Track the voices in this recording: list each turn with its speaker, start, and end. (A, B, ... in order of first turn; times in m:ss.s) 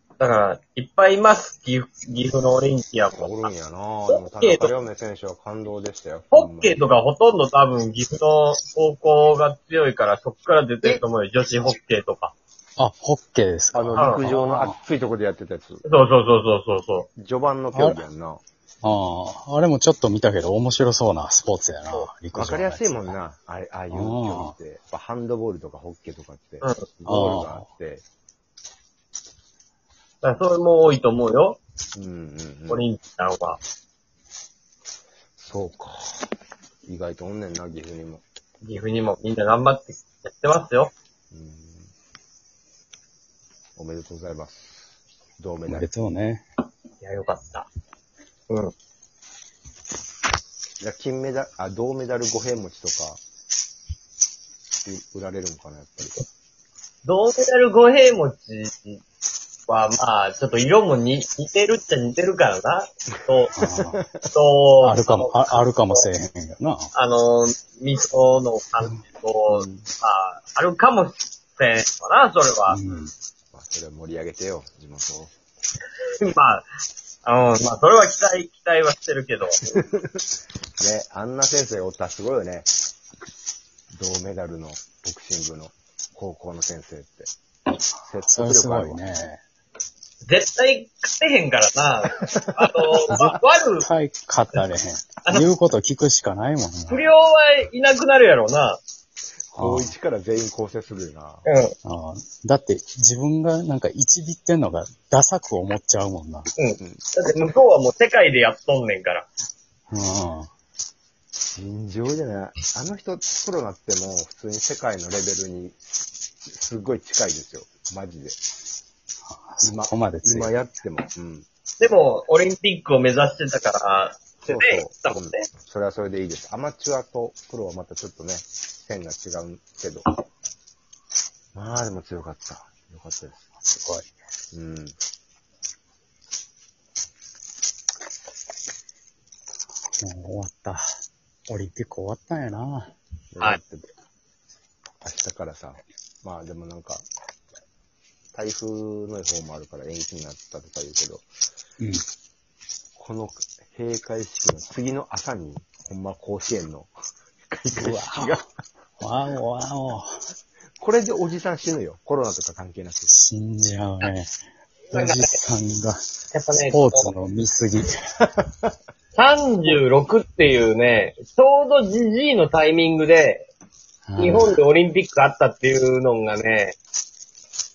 0:00.2-0:03.5 A
0:03.2-0:06.8 B
0:04.1-0:04.8 A
0:06.3-0:12.3 A
0:12.8-0:14.8 C
0:13.7-0:15.8 B
0:14.0-0:14.2 A
0:15.9-0:17.1 A
0:17.2-0:18.4 B
0:17.7-0:18.0 C
0:18.8-0:23.2 C
0:22.3-0:28.0 B
0:23.9-0:24.6 C
0:27.1-0:27.7 C
0:30.2-0:31.6 A
0:32.0-0:32.8 B
0:32.7-0:33.6 A
0:35.4-0:36.3 B
0:36.9-0:38.2 B
0:38.6-0:40.9 A
0:41.3-0:41.9 B
0:43.8-0:45.9 B
0:45.7-0:46.4 C
0:47.0-0:47.7 A
0:50.8-0:53.2 B
0:54.8-0:56.2 B
0:57.0-0:59.0 A
0:59.7-1:03.5 A
1:03.6-1:04.0 C
1:03.6-1:04.3 B
1:04.3-1:06.1 A
1:04.8-1:06.9 C
1:06.9-1:12.8 A
1:09.5-1:09.8 C
1:12.7-1:13.1 C
1:13.5-1:15.3 B
1:16.2-1:16.7 A
1:17.2-1:19.7 A
1:20.8-1:22.7 B
1:23.9-1:27.3 B
1:28.0-1:29.0 B
1:28.2-1:29.4 C
1:30.3-1:33.9 A
1:32.2-1:33.1 B
1:33.1-1:37.1 C
1:36.9-1:38.8 A
1:39.5-1:41.5 B
1:39.6-1:39.9 C
1:41.5-1:41.8 A
1:41.8-1:46.5 C
1:46.6-1:49.3 A
1:49.9-1:50.5 C
1:51.5-1:55.8 B
1:56.5-1:58.4 B
1:59.3-2:00.5 C
1:59.6-2:01.5 B
2:01.8-2:05.5 A
2:04.4-2:10.1 B
2:11.5-2:13.5 B
2:13.6-2:14.1 C
2:14.5-2:15.0 B
2:20.0-2:20.8 C
2:21.5-2:22.9 C
2:23.3-2:23.9 B
2:25.0-2:27.1 B
2:28.3-2:31.3 B
2:33.0-2:36.9 B
2:37.5-2:38.4 B
2:37.7-2:38.4 C
2:39.0-2:40.1 C
2:40.8-2:43.1 B
2:43.1-2:44.3 C
2:44.9-2:45.4 A
2:44.9-2:46.0 C
2:46.3-2:47.1 A
2:46.7-2:48.0 C
2:49.1-2:53.5 A
2:54.1-2:54.6 C
2:54.2-2:56.8 A